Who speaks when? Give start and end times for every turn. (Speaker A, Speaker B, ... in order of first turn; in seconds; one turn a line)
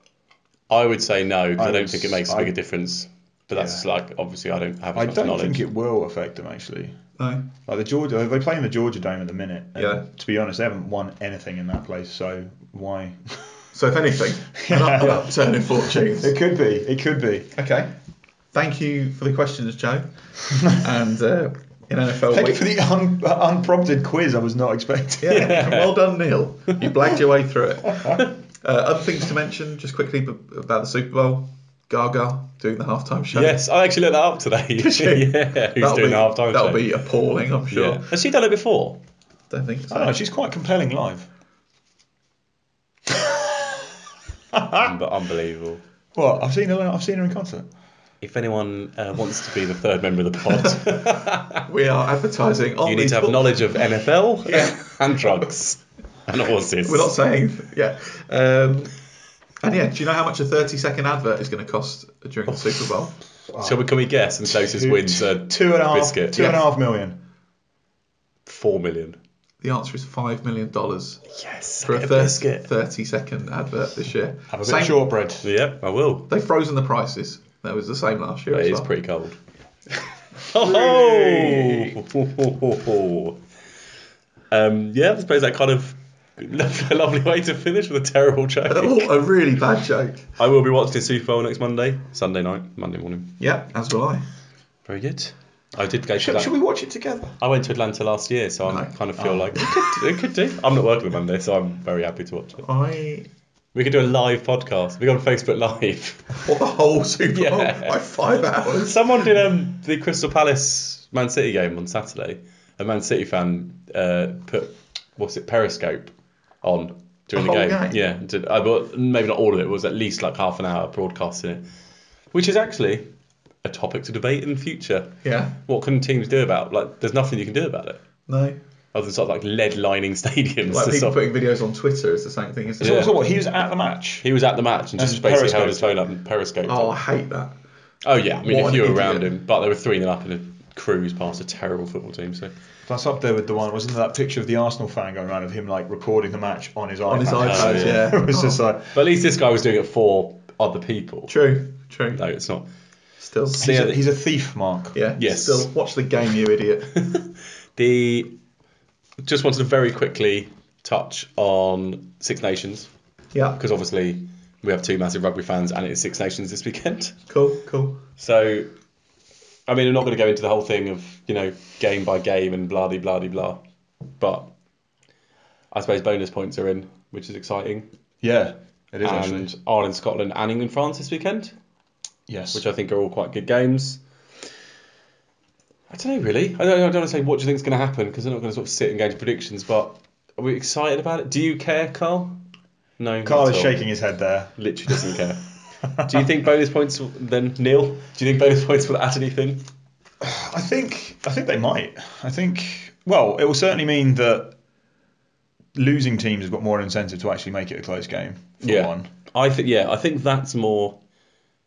Speaker A: 0.7-5.6
Speaker B: 1.6-2.5
Speaker B: 3.5-3.8
Speaker B: 4.9-7.0
Speaker C: 7.2-7.5
Speaker B: 7.7-13.5
Speaker C: 9.8-10.1
Speaker C: 13.7-16.4
Speaker B: 14.6-17.5
Speaker C: 17.6-17.9
Speaker C: 18.5-22.7
Speaker B: 22.3-25.7
Speaker C: 25.2-33.6
Speaker A: 25.3-26.1
Speaker A: 33.3-36.9
Speaker C: 34.8-38.1
Speaker A: 37.7-39.0
Speaker C: 39.5-40.2
Speaker B: 39.9-41.3
Speaker B: 43.1-43.5
Speaker B: 44.5-44.9
Speaker A: 44.8-45.8
Speaker B: 46.1-47.7
Speaker A: 48.2-51.6
Speaker C: 51.6-53.6
Speaker A: 52.8-57.2
Speaker C: 54.5-54.8
Speaker C: 56.8-58.9
Speaker C: 59.6-63.1
Speaker B: 63.5-63.9
Speaker A: 63.6-66.5
Speaker B: 64.4-67.2
Speaker C: 66.3-66.6
Speaker A: 68.5-69.2
Speaker C: 69.6-71.3
Speaker A: 71.3-72.7
Speaker C: 71.8-75.1
Speaker B: 74.5-75.5
Speaker A: 75.4-76.3
Speaker C: 76.3-78.9
Speaker A: 78.5-79.4
Speaker A: 80.5-83.4
Speaker C: 80.7-81.8
Speaker A: 84.5-89.2
Speaker C: 88.7-90.3
Speaker A: 90.4-93.4
Speaker C: 93.4-94.3
Speaker A: 94.9-96.6
Speaker B: 96.2-97.4
Speaker A: 97.4-102.7
Speaker B: 99.2-99.6
Speaker C: 102.6-103.3
Speaker A: 103.7-106.4
Speaker C: 106.4-109.0
Speaker A: 107.3-108.0
Speaker A: 108.6-121.7
Speaker C: 117.3-118.0
Speaker A: 122.3-123.1
Speaker A: 123.6-128.0
Speaker C: 125.2-125.6
Speaker C: 128.3-128.6
Speaker A: 128.9-131.3
Speaker C: 130.7-133.1
Speaker A: 132.8-133.2
Speaker B: 132.8-134.3
Speaker A: 134.2-137.0
Speaker B: 135.0-136.0
Speaker C: 136.7-137.5
Speaker A: 138.0-142.5
Speaker C: 138.4-139.3
Speaker B: 142.9-148.9
Speaker C: 147.1-148.6
Speaker A: 147.4-148.1
Speaker A: 148.9-151.5
Speaker C: 151.3-152.2
Speaker A: 152.2-152.7
Speaker C: 153.2-153.7
Speaker A: 153.5-154.0
Speaker B: 153.6-155.0
Speaker C: 154.9-157.0
Speaker A: 155.2-155.7
Speaker A: 157.0-158.4
Speaker A: 159.2-162.9
Speaker A: 163.6-167.2
Speaker C: 167.3-168.0
Speaker A: 168.2-168.7
Speaker A: 169.7-173.6
Speaker A: 174.2-174.5
Speaker A: 175.7-177.9
Speaker B: 178.2-179.5
Speaker A: 179.0-181.6
Speaker B: 182.3-182.7
Speaker A: 182.5-184.0
Speaker A: 185.9-192.4
Speaker A: 193.0-193.8
Speaker B: 193.2-195.0
Speaker A: 194.6-199.7
Speaker B: 196.0-196.3
Speaker B: 200.2-204.6
Speaker B: 205.8-209.1
Speaker A: 208.6-211.0